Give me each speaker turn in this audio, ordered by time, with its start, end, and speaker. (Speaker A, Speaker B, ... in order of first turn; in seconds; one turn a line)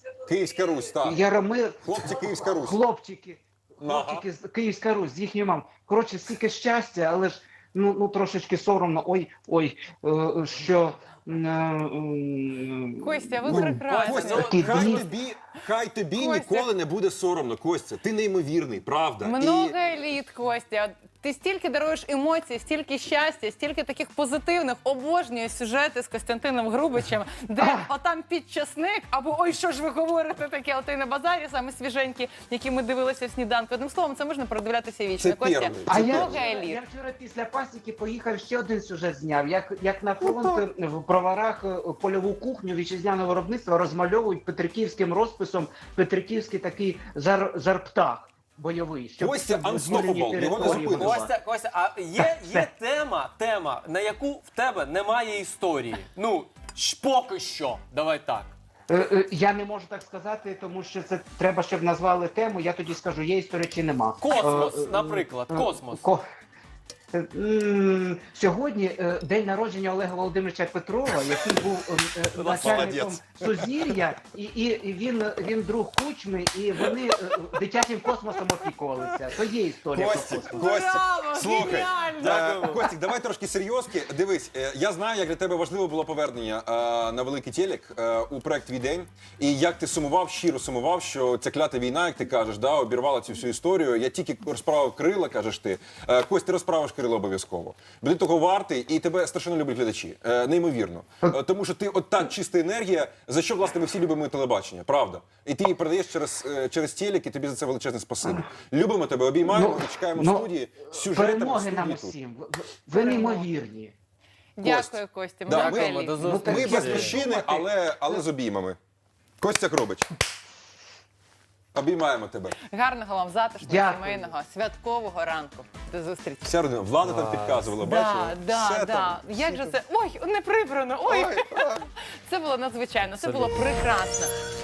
Speaker A: 0.2-1.2
Speaker B: 1.0-15.1
Speaker A: 1.8-2.8
Speaker A: 3.8-4.2
Speaker C: 13.0-14.4
Speaker A: 13.5-19.7
Speaker D: 13.8-15.1
Speaker C: 16.2-16.7
Speaker C: 19.2-36.8
Speaker B: 27.6-27.9
Speaker A: 35.2-36.4
Speaker B: 35.9-51.3
Speaker A: 49.2-51.2
Speaker D: 50.4-58.5
Speaker B: 58.9-66.2
Speaker D: 64.2-66.0
Speaker B: 67.1-80.7
Speaker D: 72.3-72.9
Speaker A: 72.5-74.0
Speaker A: 79.9-112.1
Speaker C: 80.6-82.4
Speaker D: 82.2-82.8
Speaker B: 109.5-113.9
Speaker C: 112.9-113.5
Speaker C: 114.6-116.2
Speaker A: 114.6-118.8
Speaker D: 115.5-117.2
Speaker B: 116.2-118.2
Speaker A: 119.4-120.1
Speaker A: 121.7-122.5
Speaker C: 122.7-126.4
Speaker B: 123.6-124.3
Speaker A: 126.4-129.8
Speaker D: 127.0-127.7
Speaker C: 127.8-134.3
Speaker A: 131.1-131.9
Speaker A: 133.2-133.5